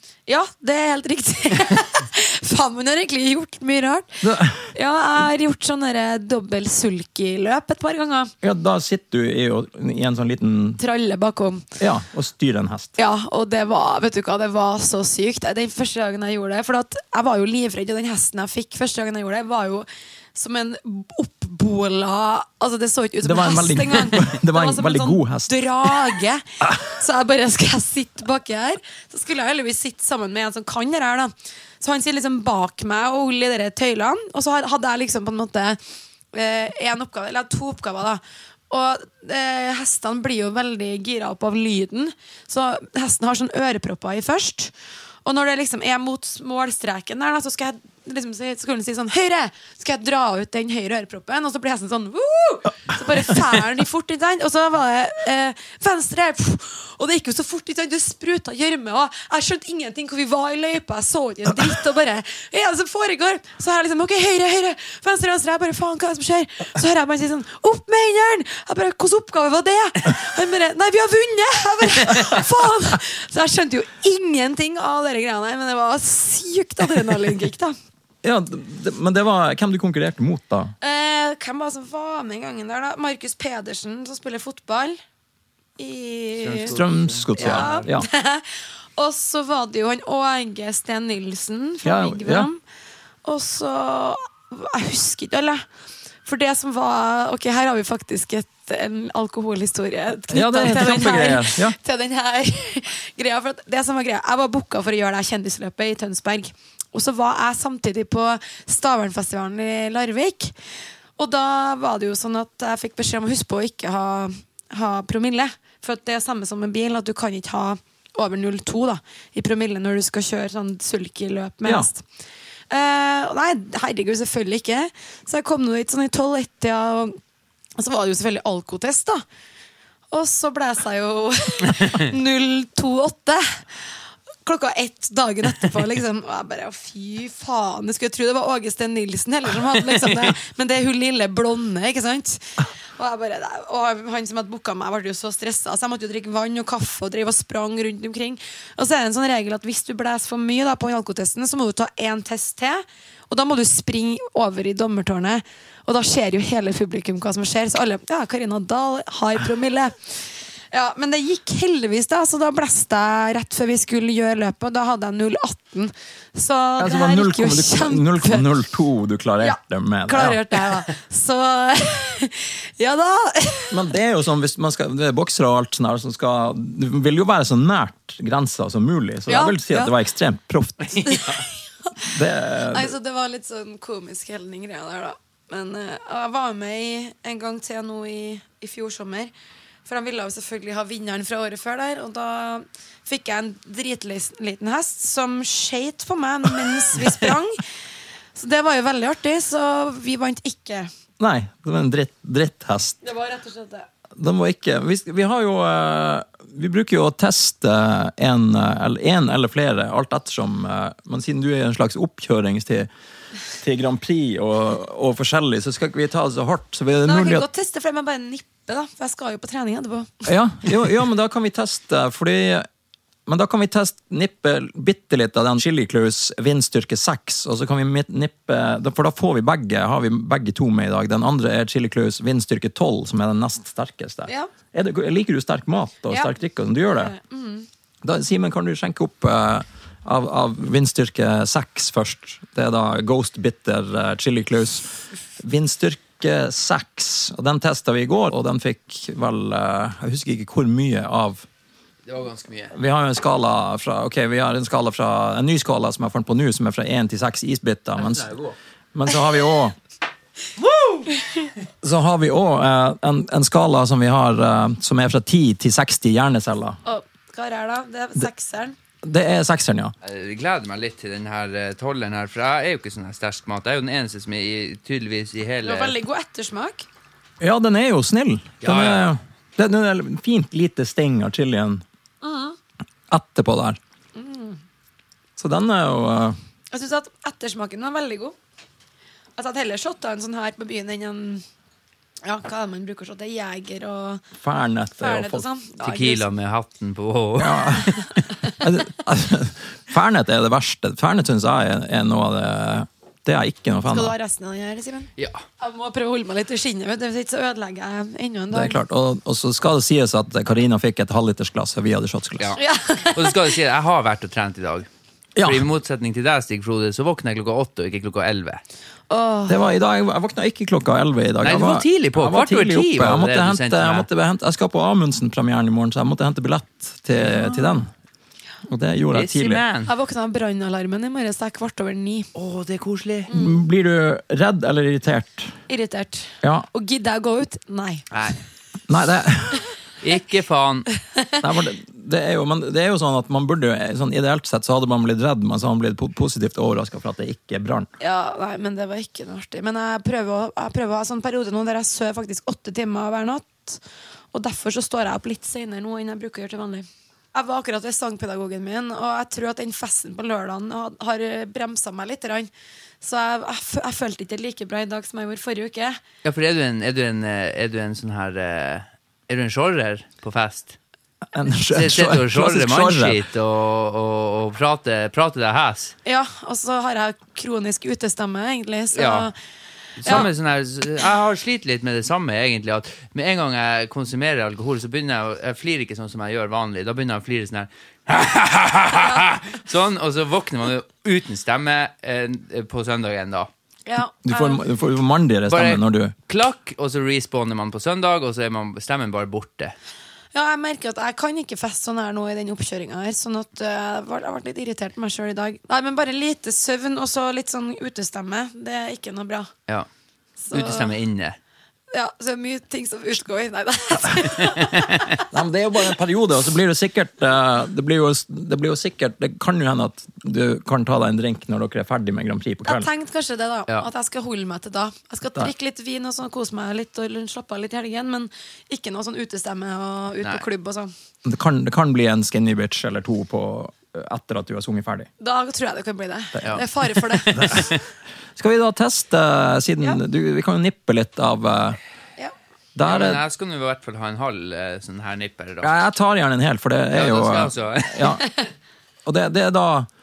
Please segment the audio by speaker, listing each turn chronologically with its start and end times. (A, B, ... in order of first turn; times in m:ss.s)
0:00.3-0:08.3 A
0:04.2-0:04.7 B
0:08.4-0:10.8 B
0:10.8-0:11.7 A
0:11.8-0:12.9 B
0:13.0-0:35.8 A
0:23.2-0:26.2 B
0:36.3-0:44.7 A
0:45.2-1:17.8 A
1:18.2-1:20.7 B
1:20.8-1:25.0 A
1:25.8-1:26.8 A
1:26.4-1:27.9 C
1:26.7-1:28.1 B
1:27.3-1:32.6 A
1:31.8-1:32.5 B
1:33.2-1:35.6 A
1:36.2-1:50.5 A
1:40.3-1:41.8 B
1:51.2-2:02.0 A
2:02.7-2:07.2 A
2:07.8-2:09.2 A
2:10.1-2:13.6 A
2:14.4-2:40.0 A
2:40.7-2:48.5 A
2:46.8-2:50.4 B
2:49.4-2:53.8 A
2:53.7-3:01.2 B
2:59.3-2:59.9 A
3:01.0-3:02.1 A
3:02.0-3:02.9 B
3:02.7-3:09.3 A
3:09.8-3:17.6 A
3:18.3-3:20.9 A
3:21.2-3:23.0 B
3:23.0-3:23.9 A
3:24.2-3:32.9 B
3:33.6-3:37.4 B
3:37.0-3:40.3 A
3:40.2-3:42.7 B
3:43.2-3:57.1 B
3:56.9-3:57.7 A
3:58.0-4:11.4 B
4:12.0-4:12.7 C
4:12.7-4:18.4 B
4:18.0-4:18.5 C
4:18.9-4:19.8 B
4:20.6-4:21.0 C
4:21.8-4:26.8 B
4:26.8-4:28.8 A
4:29.0-4:29.9 B
4:30.0-4:36.0 C
4:35.6-4:36.8 A
4:37.4-4:41.8 B
4:38.6-4:39.1 C
4:42.2-4:42.6 A
4:43.1-4:43.8 B
4:44.1-4:44.6 A
4:45.4-4:46.4 B
4:46.7-4:48.4 A
4:49.4-4:51.4 A
4:52.2-4:54.2 A
4:54.4-4:55.4 B
4:55.0-4:56.2 A
4:55.8-4:58.2 C
4:57.4-4:58.0 B
4:58.6-5:04.1 B
5:03.9-5:08.8 A
5:05.2-5:05.4 C
5:08.5-5:12.6 B
5:12.4-5:14.9 C
5:12.6-5:13.5 A
5:15.4-5:15.6 B
5:15.4-5:18.6 C
5:19.1-5:19.6 A
5:19.5-5:27.9 B
5:21.4-5:24.0 C
5:27.2-5:27.7 C
5:28.7-5:29.6 B
5:29.1-5:29.9 C
5:29.8-5:32.3 A
5:32.3-5:33.3 C
5:33.3-5:33.6 A
5:33.3-5:35.5 B
5:35.7-5:38.1 A
5:36.4-5:36.7 B
5:38.1-5:38.4 C
5:38.9-5:39.6 B
5:40.0-5:40.9 C
5:41.4-5:47.9 B
5:48.0-5:53.8 A
5:54.3-6:02.5 A
6:03.0-6:06.0 A
6:06.2-6:10.8 C
6:11.3-6:13.2 B
6:11.7-6:15.9 C
6:16.0-6:19.3 A
6:18.9-6:19.3 C
6:20.0-6:33.5 C
6:20.0-6:20.3 A
6:33.8-6:34.6 A
6:34.2-6:36.1 B
6:35.5-6:39.7 C
6:40.3-6:49.5 A
6:50.4-6:50.9 A
6:50.5-6:51.4 C
6:51.9-6:55.2 A
6:54.5-6:55.0 C
6:55.3-7:02.9 B
7:02.6-7:10.9 A
7:11.2-7:15.1 B
7:15.2-7:17.8 A
7:17.3-7:17.6 C
7:17.3-7:17.7 B
7:18.4-7:21.8 B
7:22.7-7:23.2 B
7:22.8-7:25.7 C
7:25.6-7:28.2 B
7:26.9-7:28.2 C
7:29.0-7:29.9 B